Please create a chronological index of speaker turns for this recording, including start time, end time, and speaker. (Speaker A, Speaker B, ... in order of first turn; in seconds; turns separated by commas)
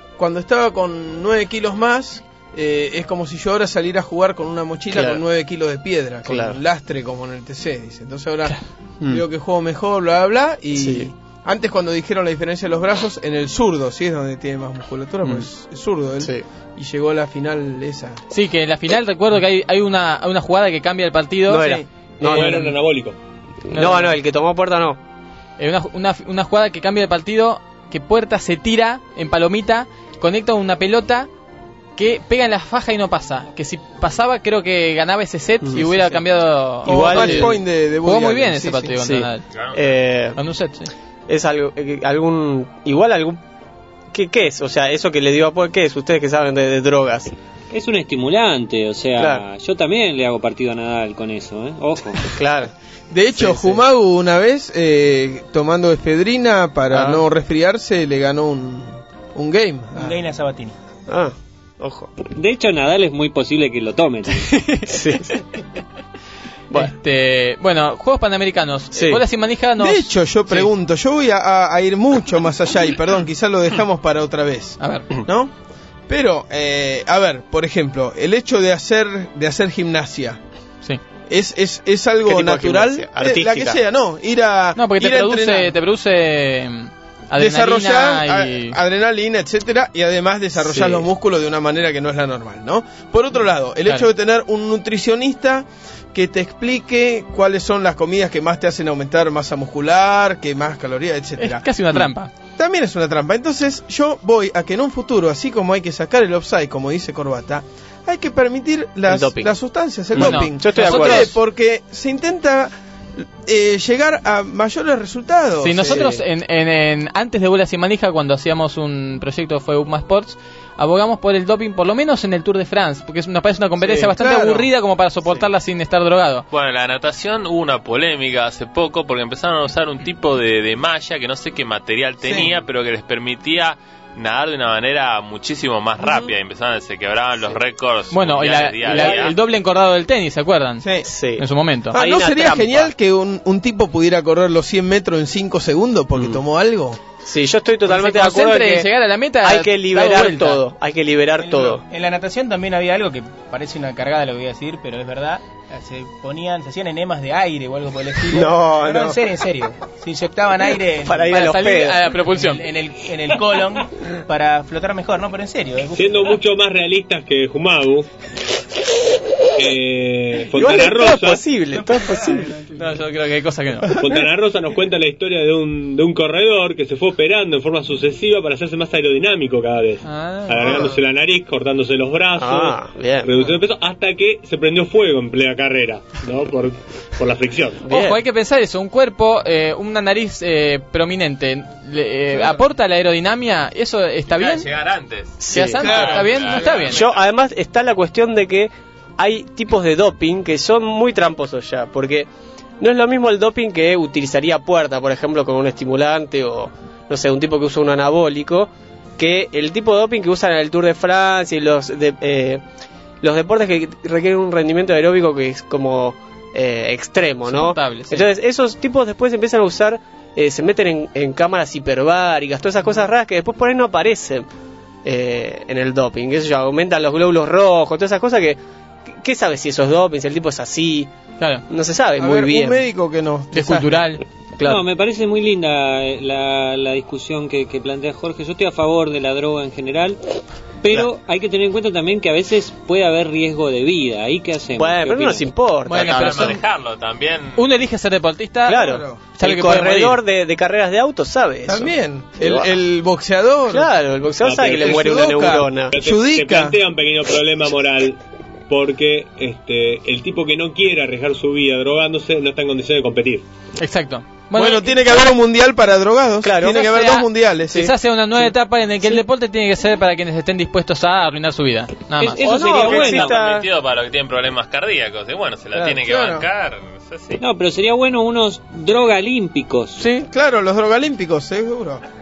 Speaker A: 0.2-18.2, Speaker B: 4.9-5.2, Speaker B: 6.2-6.6, Speaker B: 10.7-11.1, Speaker B: 16.2-16.4, Speaker C: 18.3-21.8, Speaker B: 21.4-22.8, Speaker D: 22.2-23.2, Speaker C: 23.7-24.1, Speaker B: 23.7-25.0, Speaker C: 25.6-31.3, Speaker C: 31.9-39.5, Speaker B: 35.6-36.2, Speaker B: 36.8-37.5, Speaker A: 36.8-38.9, Speaker B: 39.0-40.4, Speaker E: 39.5-40.0, Speaker C: 40.4-40.9, Speaker B: 41.3-43.4, Speaker B: 44.1-47.3, Speaker F: 47.7-52.4, Speaker B: 49.2-49.4, Speaker B: 52.2-52.7, Speaker A: 53.1-60.2, Speaker B: 53.3-53.8, Speaker B: 56.9-57.2, Speaker G: 59.9-60.8, Speaker B: 61.1-62.1, Speaker F: 62.3-64.5, Speaker C: 64.4-65.4, Speaker B: 64.9-65.3, Speaker C: 66.7-70.7, Speaker B: 68.9-69.2, Speaker A: 69.8-75.5, Speaker C: 74.8-75.1, Speaker A: 76.1-80.4, Speaker A: 81.3-85.7, Speaker B: 82.2-83.8, Speaker C: 84.8-88.8, Speaker A: 87.4-101.7, Speaker B: 90.6-91.0, Speaker C: 101.4-102.3, Speaker A: 102.6-116.1, Speaker B: 109.1-109.5, Speaker B: 110.1-111.3, Speaker C: 110.2-111.3, Speaker C: 115.6-126.5, Speaker B: 115.8-116.2, Speaker A: 123.8-124.7, Speaker E: 126.5-139.3, Speaker A: 132.2-132.5, Speaker C: 138.1-141.9, Speaker A: 140.8-141.1, Speaker B: 141.1-142.9, Speaker A: 141.9-147.0, Speaker B: 146.1-146.4, Speaker B: 147.2-148.9, Speaker C: 147.9-150.6, Speaker B: 149.4-151.8, Speaker G: 151.4-161.4, Speaker B: 158.3-159.2, Speaker B: 161.1-162.0, Speaker C: 161.3-162.7, Speaker G: 162.1-166.3, Speaker D: 165.9-168.1, Speaker D: 169.6-171.4, Speaker B: 170.5-172.5, Speaker C: 172.7-174.0, Speaker D: 173.9-187.8, Speaker C: 180.0-180.9, Speaker B: 182.3-183.3, Speaker B: 187.8-188.2, Speaker C: 187.9-194.7, Speaker A: 192.3-192.6, Speaker E: 194.3-197.3, Speaker B: 195.4-195.9, Speaker C: 195.5-197.0, Speaker A: 195.7-196.9, Speaker B: 196.9-202.3, Speaker B: 202.8-212.6, Speaker B: 213.2-224.4, Speaker C: 217.5-218.3, Speaker B: 225.0-231.1, Speaker C: 231.4-231.6, Speaker B: 231.7-232.8, Speaker A: 232.2-234.0, Speaker C: 233.5-234.2, Speaker B: 234.6-234.8, Speaker F: 234.6-240.2, Speaker F: 240.8-245.5, Speaker B: 244.8-246.6, Speaker C: 245.8-246.6, Speaker E: 245.9-247.6, Speaker C: 247.6-250.2, Speaker B: 248.7-252.8, Speaker A: 248.8-249.2, Speaker A: 251.7-253.9, Speaker B: 253.7-255.9, Speaker D: 254.4-255.1, Speaker A: 254.6-256.8, Speaker D: 255.9-263.4, Speaker C: 263.8-265.2, Speaker A: 264.5-267.9, Speaker B: 266.4-266.8, Speaker C: 266.6-272.6, Speaker F: 272.2-273.4, Speaker B: 272.4-273.7, Speaker E: 272.8-277.4, Speaker A: 275.7-276.4, Speaker F: 277.4-280.0, Speaker C: 280.0-280.3, Speaker A: 280.3-282.0